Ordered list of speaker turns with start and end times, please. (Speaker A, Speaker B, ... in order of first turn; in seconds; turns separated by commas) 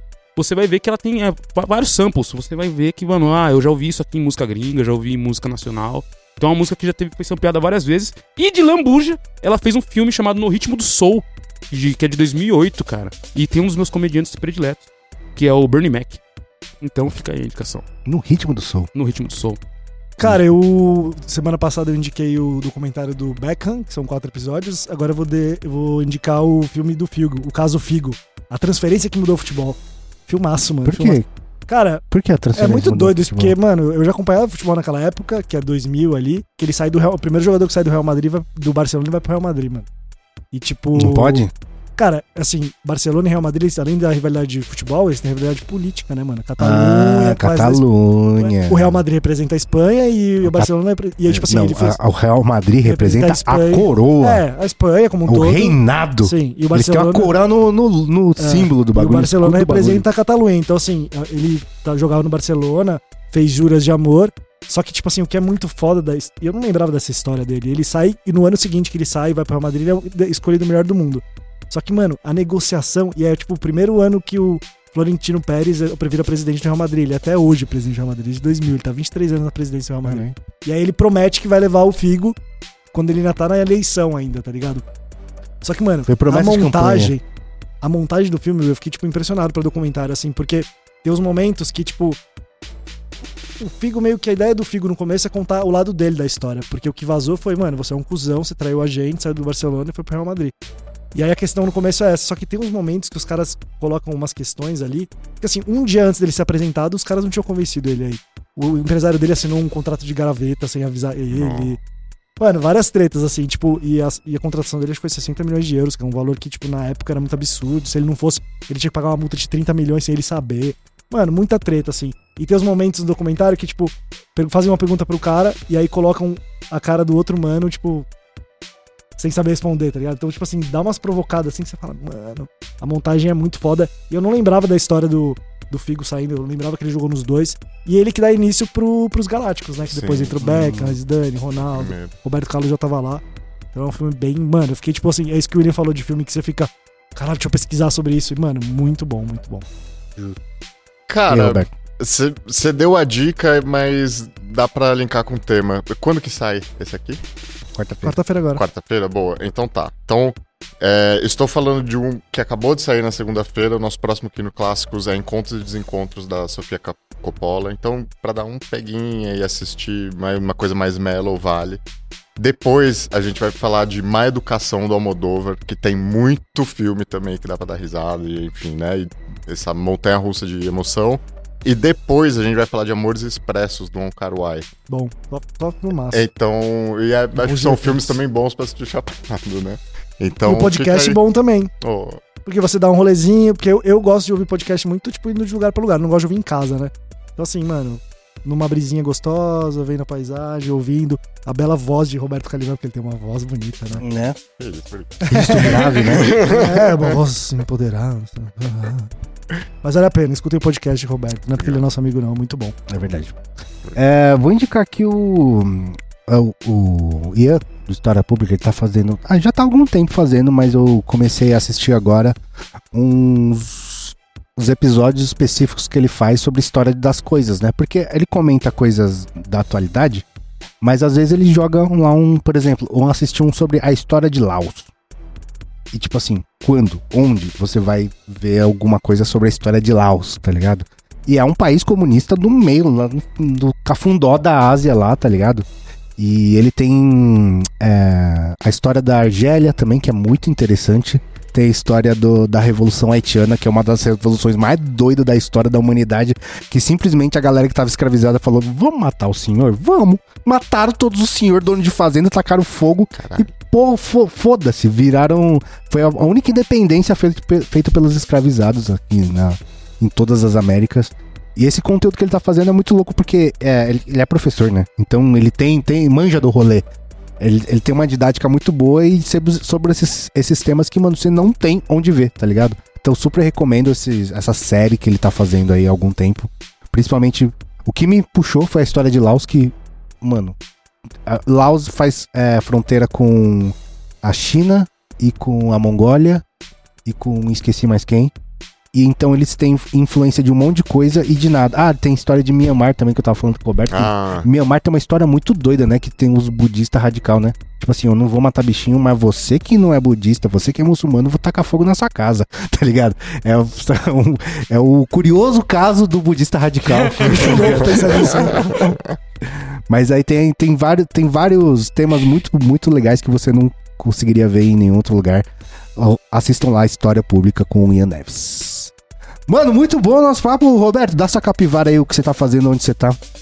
Speaker A: 0.4-14.8, Speaker A: 15.4-16.2, Speaker A: 16.8-17.8, Speaker B: 18.1-18.9, Speaker A: 18.9-19.6, Speaker C: 20.2-32.0, Speaker B: 30.9-31.3, Speaker B: 32.1-33.5, Speaker C: 32.5-39.9, Speaker C: 40.5-41.4, Speaker B: 41.0-41.5, Speaker C: 42.0-47.9, Speaker B: 46.6-49.0, Speaker C: 48.4-52.0, Speaker B: 50.4-50.7, Speaker B: 51.3-54.5, Speaker C: 52.8-57.4, Speaker B: 55.3-60.0, Speaker C: 58.4-82.4, Speaker B: 80.0-80.4, Speaker C: 82.9-84.8, Speaker C: 85.6-87.2, Speaker B: 86.1-87.1, Speaker C: 87.8-92.2, Speaker C: 93.6-100.5, Speaker C: 101.1-111.8, Speaker D: 111.3-111.8, Speaker C: 112.4-128.1, Speaker C: 129.2-149.7, Speaker D: 139.9-140.4, Speaker B: 140.4-141.0, Speaker D: 141.7-142.1, Speaker D: 151.1-157.2, Speaker B: 151.3-151.7, Speaker B: 157.8-158.2, Speaker C: 158.0-158.6, Speaker D: 158.6-171.8, Speaker D: 172.4-184.7, Speaker C: 184.9-186.2, Speaker D: 186.1-191.2, Speaker C: 187.3-188.2, Speaker C: 190.4-191.7, Speaker D: 191.8-192.2, Speaker C: 192.4-204.0, Speaker B: 204.0-204.4, Speaker D: 204.6-207.1, Speaker C: 205.2-209.1, Speaker B: 205.3-206.5, Speaker C: 209.8-212.8, Speaker B: 212.9-213.4, Speaker B: 213.9-222.4, Speaker B: 222.9-230.2, Speaker B: 230.8-234.9, Speaker B: 235.9-245.7, Speaker B: 246.2-276.9, Speaker D: 263.2-263.5, Speaker B: 277.4-290.6, Speaker B: 291.2-296.4, Speaker B: 297.1-298.3, Speaker B: 298.9-318.9, Speaker D: 303.9-304.5, Speaker C: 317.2-319.0, Speaker B: 319.9-328.9, Speaker B: 329.5-333.2